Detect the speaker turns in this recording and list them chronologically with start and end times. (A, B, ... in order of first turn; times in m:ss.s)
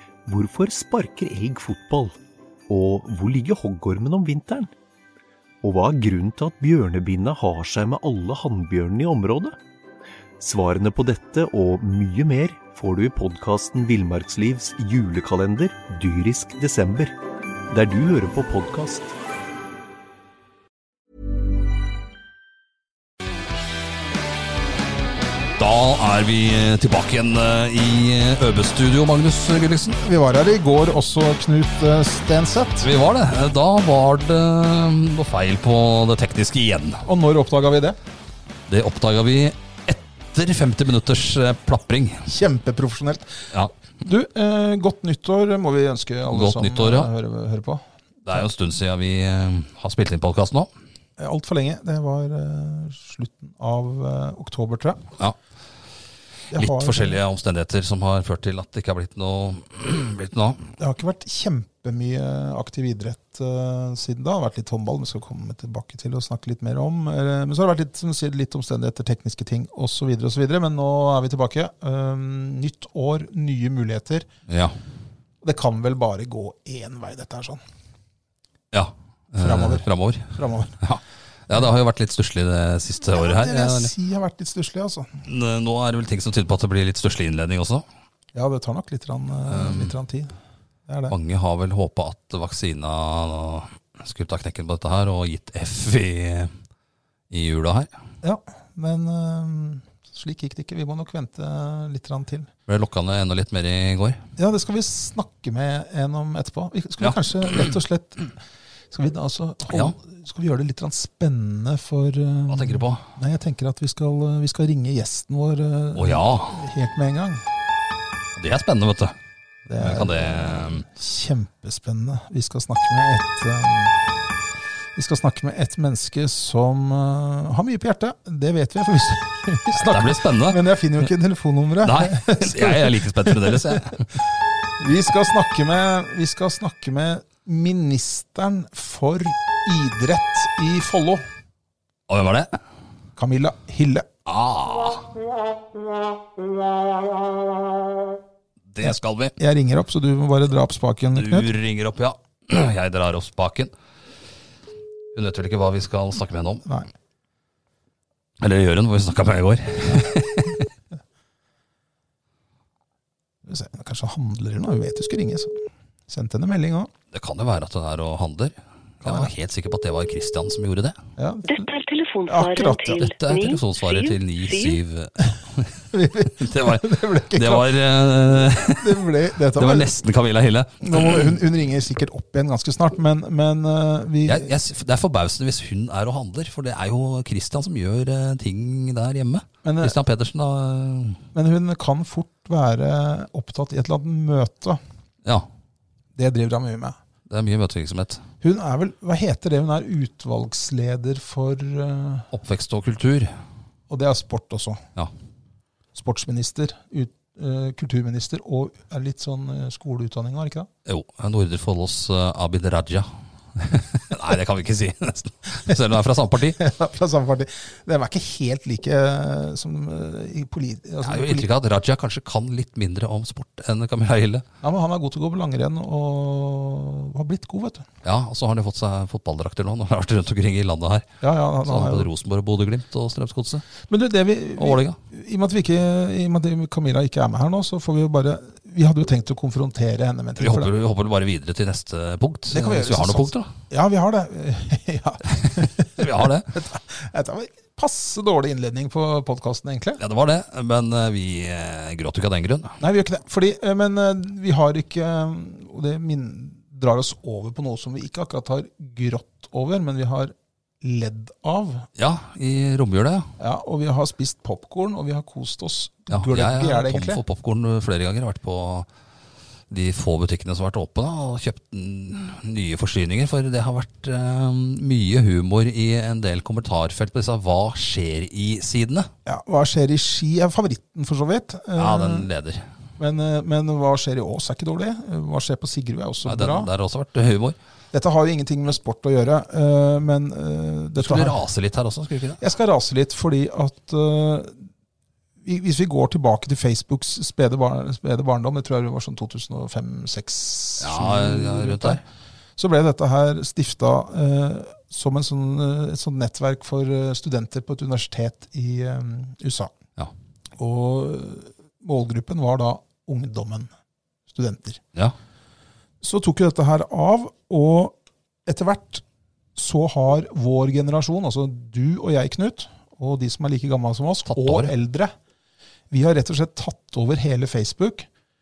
0:00.2-0:02.2 A
0:02.7-0:04.7 A
0:05.6-0:09.6 A
0:10.4-0:17.2 A
0:17.7-0:19.1 A
0:25.6-0:30.0 B
0:30.0-0:32.9 C
0:32.8-0:37.0 B
0:37.0-0:38.0 C
0:38.7-0:42.3 B
0:42.3-0:43.4 C
0:44.0-0:48.4 C
0:46.3-0:47.1 B
0:48.2-0:50.7 B
0:51.2-0:55.0 C
0:56.5-1:00.7 B
0:56.5-0:57.2 C
1:00.8-1:14.3 C
1:14.5-1:14.7 B
1:15.4-1:17.6 C
1:18.7-1:23.9 B
1:19.4-1:20.8 C
1:23.1-1:25.1 C
1:25.2-1:27.8 B
1:28.3-1:30.3 C
1:29.5-1:29.9 B
1:30.9-1:31.1 C
1:31.1-1:36.5 B
1:37.3-1:37.9 B
1:38.2-1:42.5 C
1:42.7-1:44.2 B
1:44.4-1:48.3 C
1:48.9-1:57.4 C
1:49.7-1:50.0 B
1:52.5-1:53.1 B
1:56.0-1:56.6 B
1:58.4-1:59.1 B
1:59.7-2:04.2 C
1:59.8-2:00.8 B
2:05.0-2:14.0 C
2:09.8-2:10.6 B
2:11.8-2:14.0 B
2:14.8-2:21.2 C
2:22.1-2:22.5 B
2:23.2-2:24.1 C
2:24.2-2:25.0 B
2:28.7-2:29.3 B
2:28.8-2:31.5 C
2:31.1-2:33.7 B
2:35.1-2:36.7 B
2:38.4-2:40.6 B
2:43.4-2:46.9 C
2:47.1-2:51.0 B
2:49.0-2:49.3 C
2:51.2-2:51.7 C
2:51.5-2:54.8 D
2:52.2-2:53.0 C
2:52.9-2:59.0 B
2:55.9-2:59.9 C
2:59.6-3:01.4 B
3:00.8-3:04.5 C
3:04.2-3:11.2 B
3:09.6-3:09.9 C
3:11.3-3:14.8 C
3:16.2-3:17.0 C
3:17.3-3:18.2 B
3:18.4-3:22.3 C
3:22.3-3:23.3 B
3:23.9-3:24.8 C
3:25.9-3:30.7 C
3:30.8-3:36.6 B
3:36.6-3:41.5 C
3:41.0-3:44.4 B
3:44.6-3:47.8 C
3:48.0-3:51.1 B
3:51.2-3:52.1 C
3:51.6-3:53.6 B
3:53.8-4:00.7 C
3:54.6-3:55.0 B
4:00.4-4:03.5 B
4:02.5-4:10.0 C
4:05.3-4:06.5 B
4:10.0-4:12.8 B
4:12.8-4:21.9 C
4:22.0-4:23.3 B
4:23.4-4:27.2 C
4:26.1-4:28.9 B
4:29.7-4:39.1 B
4:39.2-4:42.3 C
4:41.8-4:42.6 B
4:43.0-4:46.7 C
4:46.2-4:47.6 B
4:47.9-4:51.4 C
4:51.0-4:52.4 B
4:52.4-4:54.7 C
4:55.4-5:02.0 C
5:00.8-5:02.0 B
5:02.6-5:09.7 C
5:10.6-5:13.7 C
5:14.3-5:14.8 C
5:16.0-5:19.0 C
5:19.6-5:25.1 C
5:24.3-5:24.7 B
5:25.9-5:28.1 C